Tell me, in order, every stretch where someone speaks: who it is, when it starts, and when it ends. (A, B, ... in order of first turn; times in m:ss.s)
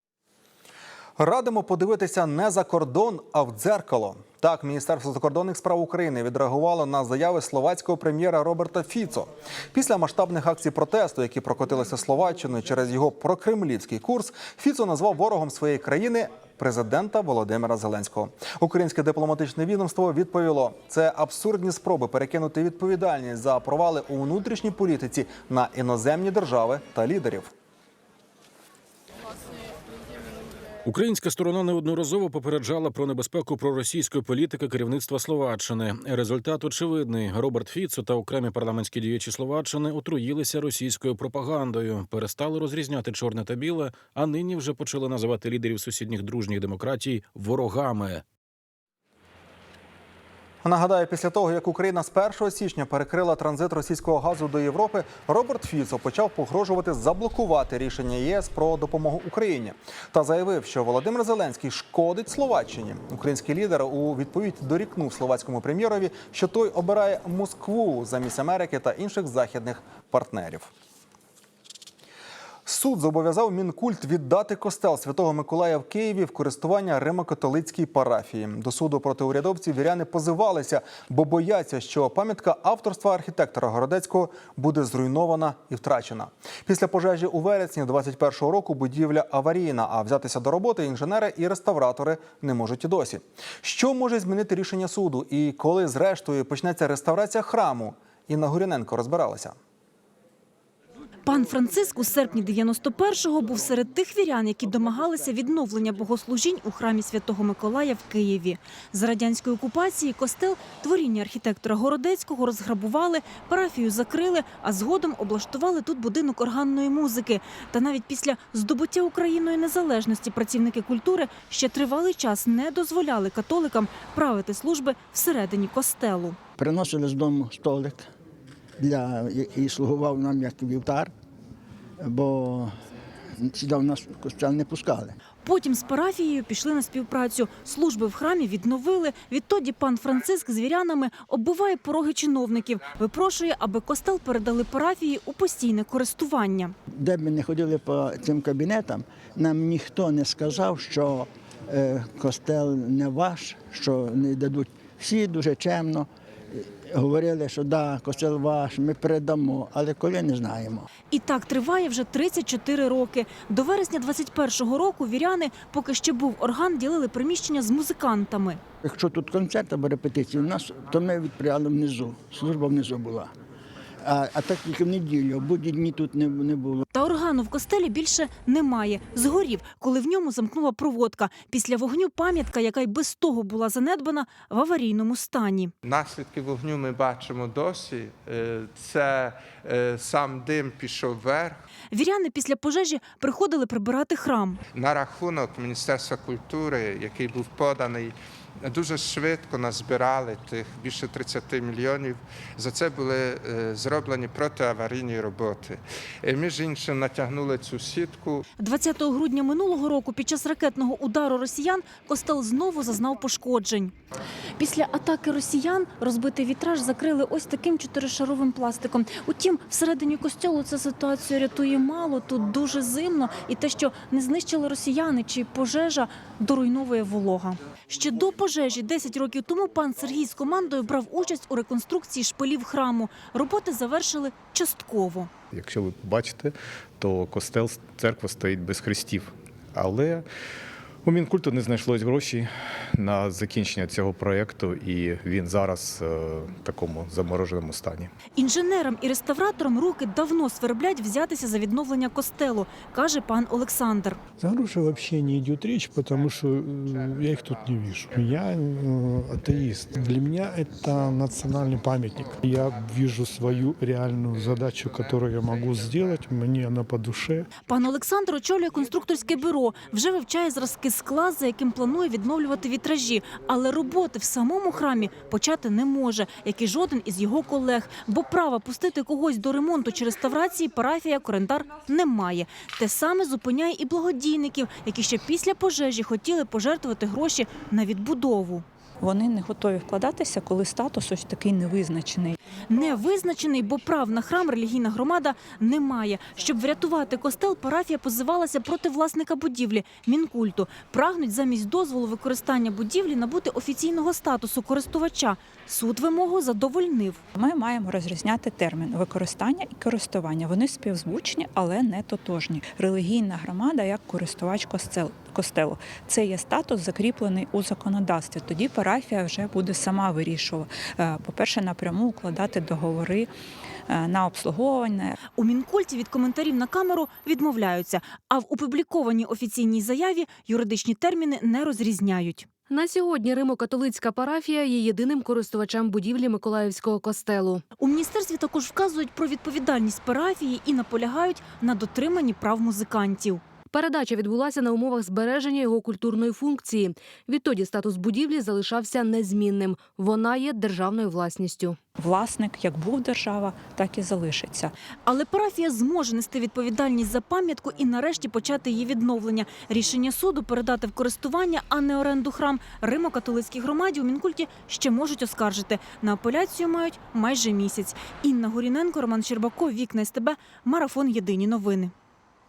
0:01.2-0:27.5 A
0:30.8-0:48.2 B
0:50.6-1:10.7 A
1:12.6-1:39.6 A
1:41.2-2:06.4 C
2:06.6-2:08.1 D
2:08.8-2:11.1 D
2:12.0-2:12.7 D
2:13.4-2:15.2 D
2:15.4-2:26.7 C
2:26.9-2:40.9 D
2:41.1-2:48.6 C
2:48.8-2:53.3 D
2:54.0-2:56.8 D
2:56.9-3:05.7 C
3:05.8-3:11.6 E
3:11.9-3:14.6 C
3:14.7-3:28.4 E
3:28.6-3:33.9 C
3:34.6-3:55.3 C
3:55.5-4:00.2 F
4:01.0-4:08.1 F
4:08.4-4:14.2 C
4:14.4-4:27.5 G
4:16.1-4:18.3 E
4:19.9-4:22.9 E
4:24.3-4:26.1 E
4:27.7-4:48.6 C
4:49.0-4:52.4 H
4:52.7-5:07.2 C
5:07.4-5:23.3 H
5:23.9-5:25.2 H
5:25.4-5:32.5 C
5:32.7-5:37.6 I
5:37.8-5:43.4 C
5:43.7-5:51.8 I
5:52.0-5:54.7 H
5:55.0-6:11.9 C